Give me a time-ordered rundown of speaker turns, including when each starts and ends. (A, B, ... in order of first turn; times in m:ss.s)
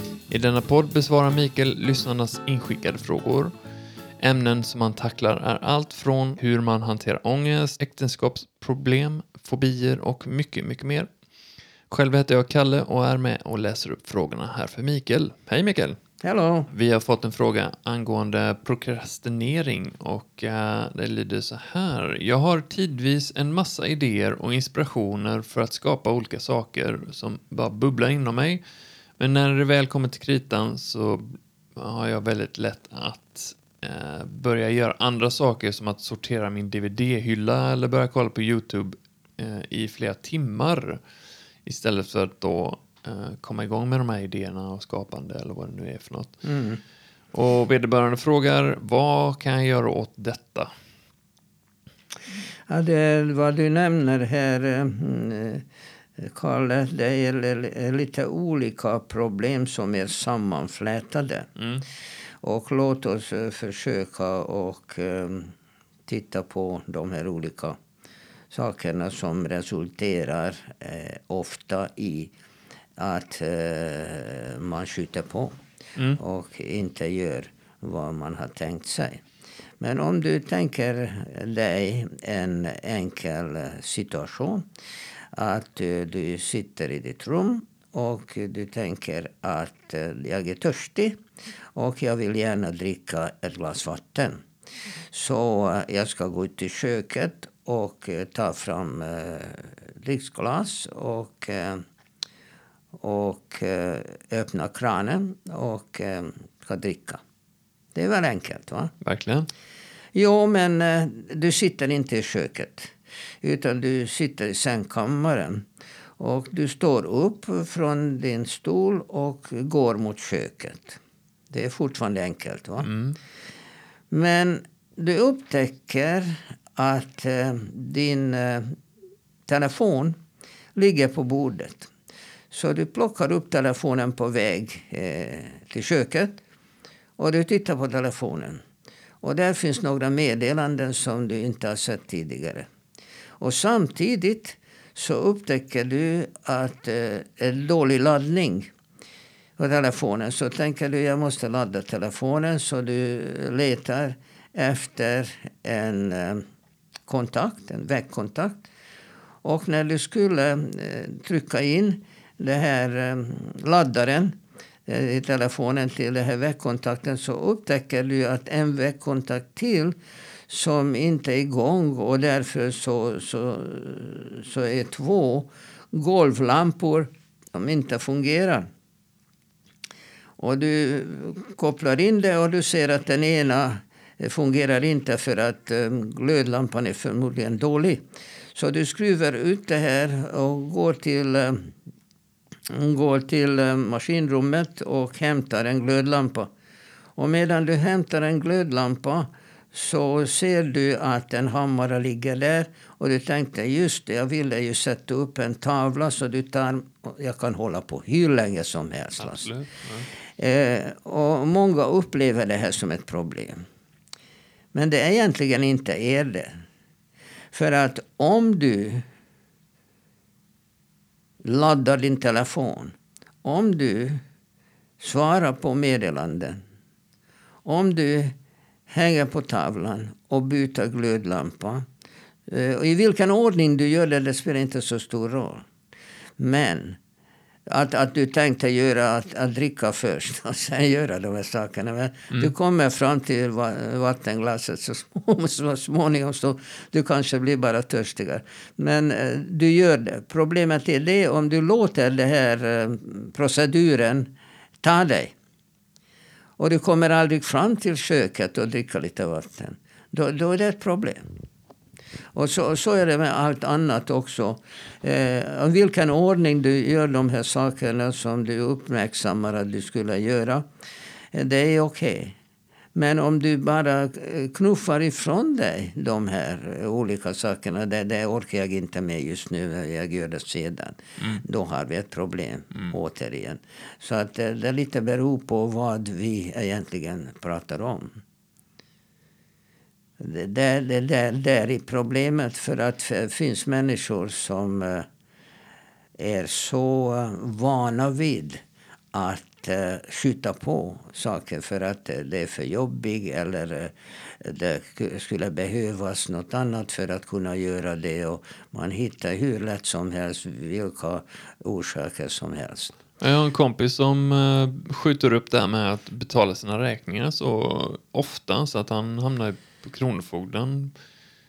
0:00.3-0:03.5 A
0:04.2-0:11.1 A
0:11.9-0:16.0 A
0:16.2-0:16.7 B
0:16.7-0:28.6 A
0:29.2-0:41.0 A
0:41.6-0:46.4 A
0:46.4-0:46.8 B
0:47.3-0:50.7 A
0:52.7-0:55.6 B
0:56.2-1:01.5 B
1:01.6-1:01.8 A
1:02.4-1:05.5 B
1:06.1-1:07.8 B
1:08.5-1:12.3 B
1:13.0-1:15.6 B
1:16.2-1:19.2 B
1:19.8-1:24.6 B
1:25.3-1:31.2 B
1:31.7-1:34.4 B
1:35.1-1:41.8 B
1:43.0-1:47.2 B
1:47.9-1:48.9 B
1:49.0-1:49.5 A
1:50.1-1:55.6 B
1:56.2-2:01.0 B
2:01.5-2:02.9 B
2:02.8-2:03.2 A
2:04.1-2:08.8 B
2:09.5-2:10.2 B
2:10.8-2:11.9 B
2:12.5-2:16.4 B
2:17.2-2:18.6 B
2:19.2-2:22.7 B
2:23.4-2:28.7 B
2:29.6-2:36.4 B
2:37.1-2:38.7 B
2:39.4-2:50.0 B
2:50.5-2:58.7 B
3:00.4-3:08.0 B
3:08.6-3:11.7 B
3:12.7-3:16.5 B
3:17.2-3:29.5 B
3:29.2-3:30.1 A
3:30.4-3:33.6 B
3:34.7-3:36.6 B
3:37.5-3:39.0 B
3:41.4-3:44.2 B
3:45.0-3:46.6 B
3:47.6-3:48.3 B
3:48.9-3:51.8 B
3:52.5-3:55.6 B
3:56.4-3:57.0 B
3:57.7-4:15.4 B
4:16.6-4:21.2 B
4:22.3-4:30.6 B
4:31.3-4:32.4 B
4:32.9-4:48.2 B
4:50.2-4:55.1 B
4:56.2-4:58.6 B
4:59.1-5:13.0 B
5:13.2-5:20.9 A